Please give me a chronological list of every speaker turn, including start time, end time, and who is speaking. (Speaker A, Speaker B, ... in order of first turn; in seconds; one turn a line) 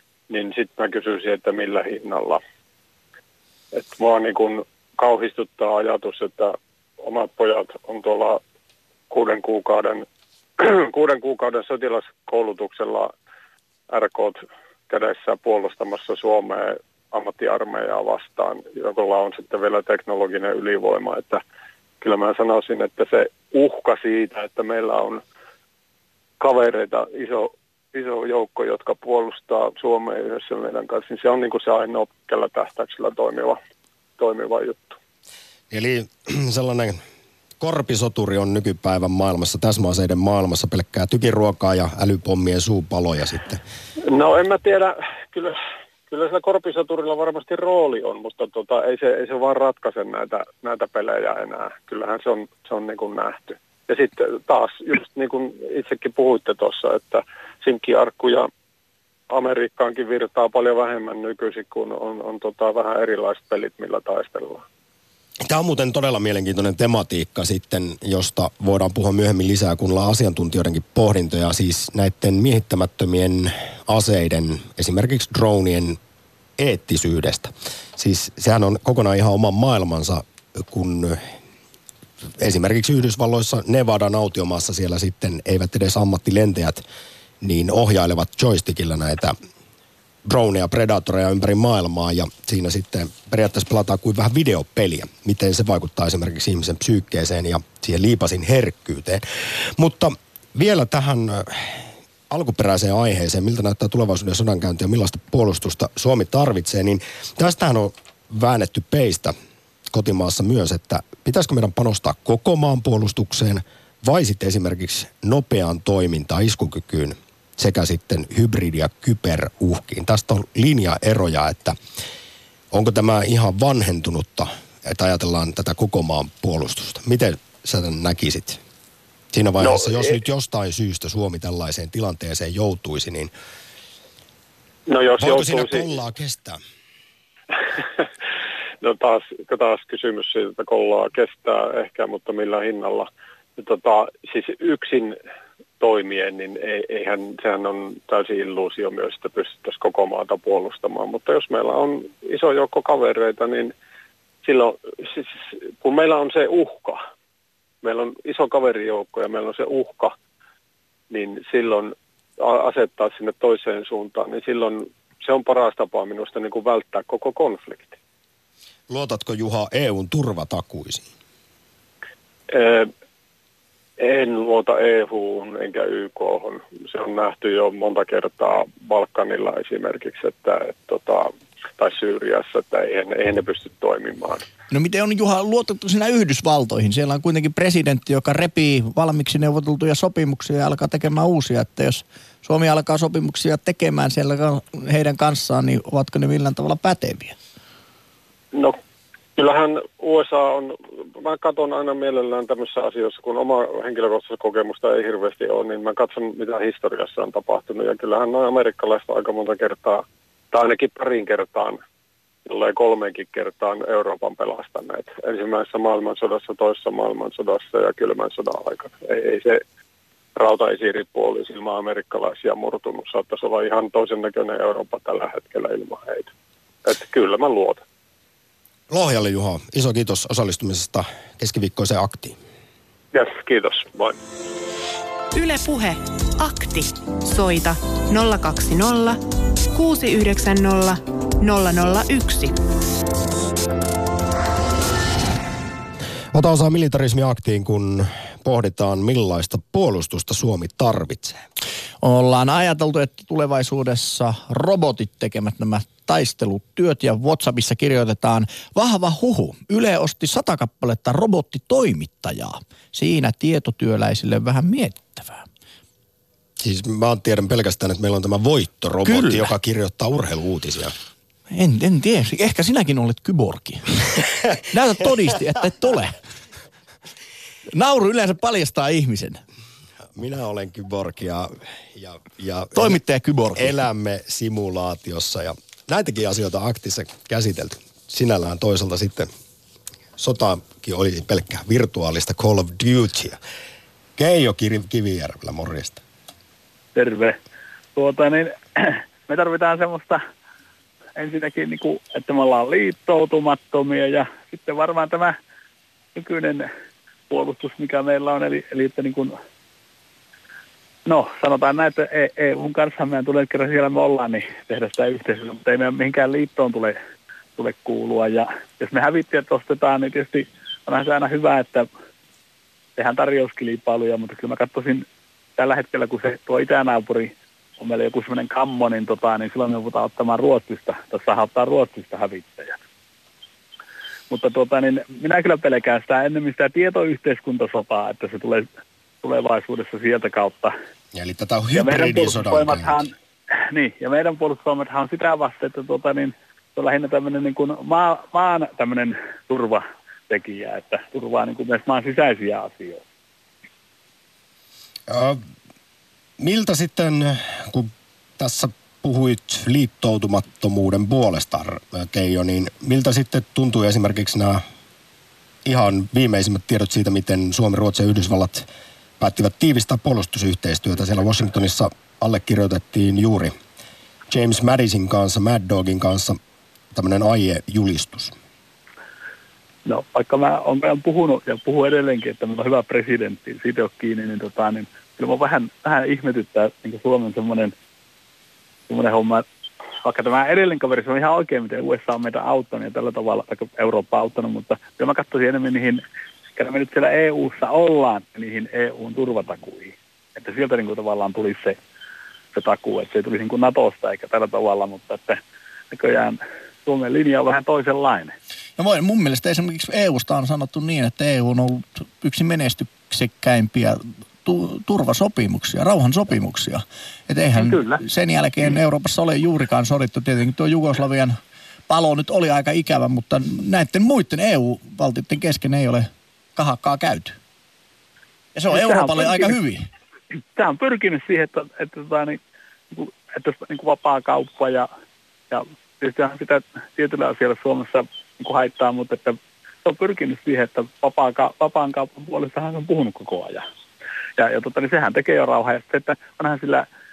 Speaker A: 0.3-2.4
Speaker A: 3.7-8.4
Speaker A: 9.1-10.1
Speaker A: 10.6-13.1
Speaker A: 13.9-21.4
Speaker A: 22.0-25.2
Speaker A: 26.4-33.6
Speaker A: 34.2-35.0
Speaker B: 35.7-37.0
Speaker B: 37.6-43.6
Speaker A: 44.1-45.5
Speaker A: 46.1-58.5
Speaker A: 59.3-64.6
Speaker B: 65.4-76.0
Speaker B: 76.6-81.3
Speaker B: 82.4-86.8
Speaker B: 87.4-89.3
Speaker B: 90.2-99.2
Speaker B: 99.8-109.3
Speaker B: 109.9-121.7
Speaker B: 122.7-128.6
Speaker B: 129.3-133.3
Speaker A: 129.6-130.1
Speaker A: 134.9-135.9
Speaker B: 135.2-136.6
Speaker A: 138.8-145.2
Speaker A: 145.8-153.7
Speaker A: 154.4-157.0
Speaker A: 157.8-160.1
Speaker A: 161.1-168.0
Speaker B: 168.9-171.1
Speaker A: 172.5-172.9
Speaker A: 174.0-184.4
Speaker C: 184.7-197.3
Speaker A: 199.4-211.8
Speaker A: 212.4-219.6
Speaker A: 220.4-226.3
Speaker A: 226.8-227.8
Speaker B: 228.9-232.4
Speaker A: 233.1-234.2
Speaker D: 235.3-239.2
Speaker D: 239.7-242.6
Speaker B: 246.3-251.4
Speaker C: 252.0-265.4
Speaker B: 266.6-270.9
Speaker C: 269.0-269.5
Speaker C: 271.5-273.9
Speaker C: 274.7-276.2
Speaker C: 277.7-279.4
Speaker B: 280.1-283.0
Speaker C: 282.7-283.7
Speaker B: 283.5-289.3
Speaker B: 290.2-293.4
Speaker B: 294.2-296.0
Speaker E: 296.9-297.4
Speaker E: 297.9-300.2
Speaker E: 301.2-305.3
Speaker E: 306.1-306.7
Speaker E: 307.3-309.3
Speaker E: 311.1-316.9
Speaker E: 317.6-321.9
Speaker E: 323.0-325.0
Speaker E: 325.6-332.8
Speaker E: 334.3-338.7
Speaker E: 339.2-340.7
Speaker B: 341.1-343.0
Speaker E: 341.7-353.0
Speaker B: 355.1-355.4
Speaker B: 356.4-364.6
Speaker B: 365.6-368.7
Speaker B: 369.2-373.5
Speaker B: 374.3-376.4
Speaker B: 376.9-378.3
Speaker E: 379.9-387.7
Speaker E: 388.9-389.4
Speaker E: 390.0-396.0
Speaker E: 396.6-401.8
Speaker E: 402.5-405.4
Speaker E: 405.9-408.3
Speaker C: 408.8-421.4
Speaker E: 417.6-418.0
Speaker C: 421.9-427.4
Speaker C: 428.5-429.9
Speaker E: 428.7-429.5
Speaker E: 430.5-432.4
Speaker E: 432.9-434.9
Speaker E: 435.5-443.6
Speaker E: 444.4-446.9